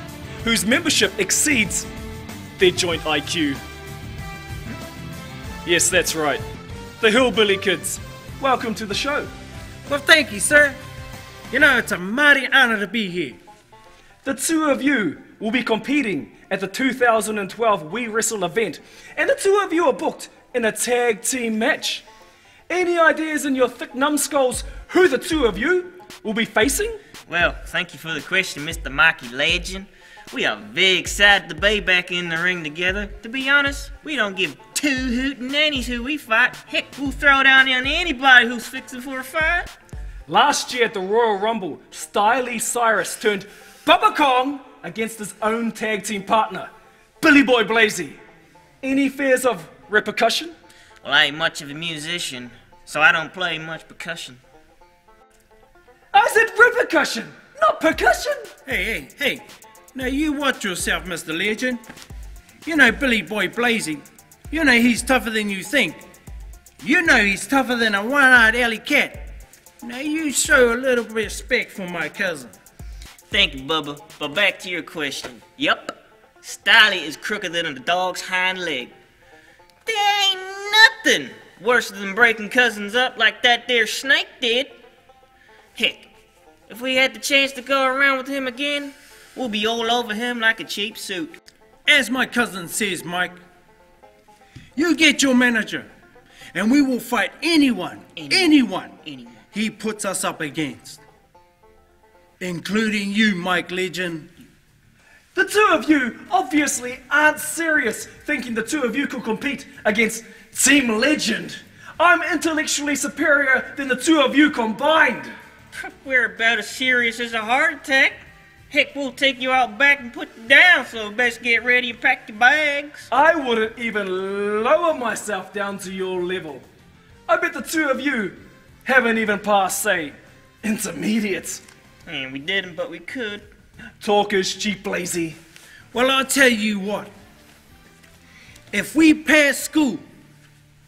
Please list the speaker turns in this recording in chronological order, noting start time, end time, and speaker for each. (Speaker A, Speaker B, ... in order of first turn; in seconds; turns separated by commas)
Speaker A: 0.4-1.9, Speaker A: 2.6-3.6, Speaker A: 5.6-6.4, Speaker A: 7.0-9.3, Speaker B: 9.9-10.8, Speaker B: 11.5-13.4, Speaker A: 14.2-22.0, Speaker A: 22.7-27.0, Speaker C: 27.3-39.7, Speaker A: 40.3-48.2, Speaker A: 48.8-50.5, Speaker C: 51.0-54.4, Speaker A: 56.1-58.5, Speaker B: 58.6-61.8, Speaker B: 62.6-66.0, Speaker B: 66.8-69.2, Speaker B: 69.8-72.5, Speaker C: 73.3-78.9, Speaker C: 79.8-84.7, Speaker C: 85.7-86.1, Speaker C: 86.7-91.4, Speaker B: 91.8-93.4, Speaker B: 94.8-95.9, Speaker B: 96.5-99.0, Speaker C: 98.2-99.4, Speaker B: 99.5-101.0, Speaker B: 102.4-104.3, Speaker A: 105.3-115.3, Speaker C: 115.7-118.2, Speaker C: 118.7-123.1, Speaker A: 123.1-126.7, Speaker A: 127.3-131.6, Speaker C: 132.1-133.5, Speaker A: 134.0-135.4, Speaker B: 135.9-137.1, Speaker B: 138.7-140.0